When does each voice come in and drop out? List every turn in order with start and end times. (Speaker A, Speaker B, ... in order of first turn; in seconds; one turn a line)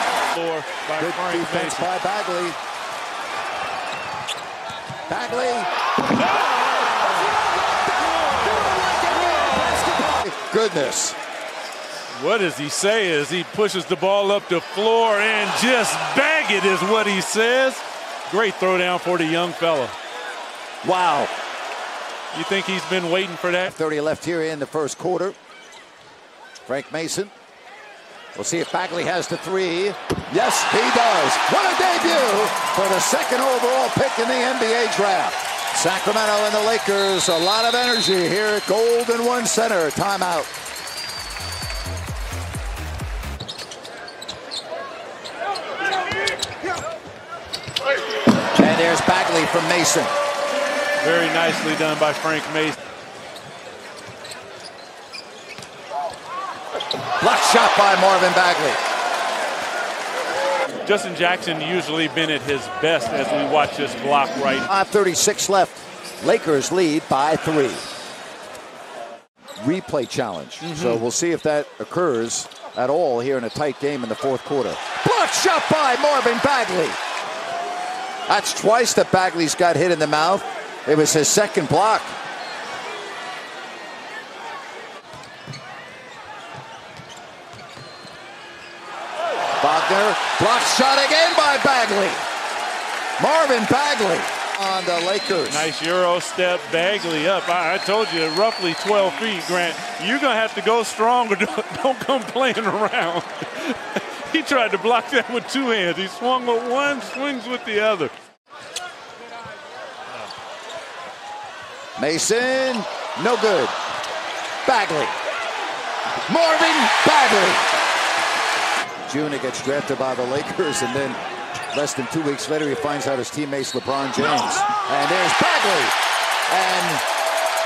Speaker A: 0.3-1.9
Speaker B: 1.0-2.6
Speaker B: 5.1-5.7
Speaker B: 8.5-11.2
Speaker A: 12.1-19.9
Speaker B: 20.8-21.3
Speaker A: 22.3-23.7
Speaker B: 23.6-25.4
Speaker B: 26.6-27.3
Speaker B: 28.3-40.5
Speaker B: 48.5-50.1
Speaker A: 51.0-52.8
Speaker B: 57.2-58.8
Speaker A: 60.8-64.7
Speaker B: 64.7-67.8
Speaker B: 69.6-77.0
Speaker A: 70.6-71.0
Speaker B: 78.3-82.1
Speaker B: 89.6-92.2
Speaker B: 93.2-95.7
Speaker A: 95.5-108.1
Speaker B: 112.0-113.7
Speaker B: 114.7-115.1
Speaker B: 116.3-117.7
Speaker B: 119.1-121.2
Speaker B: 121.7-125.9
Speaker B: 126.5-127.0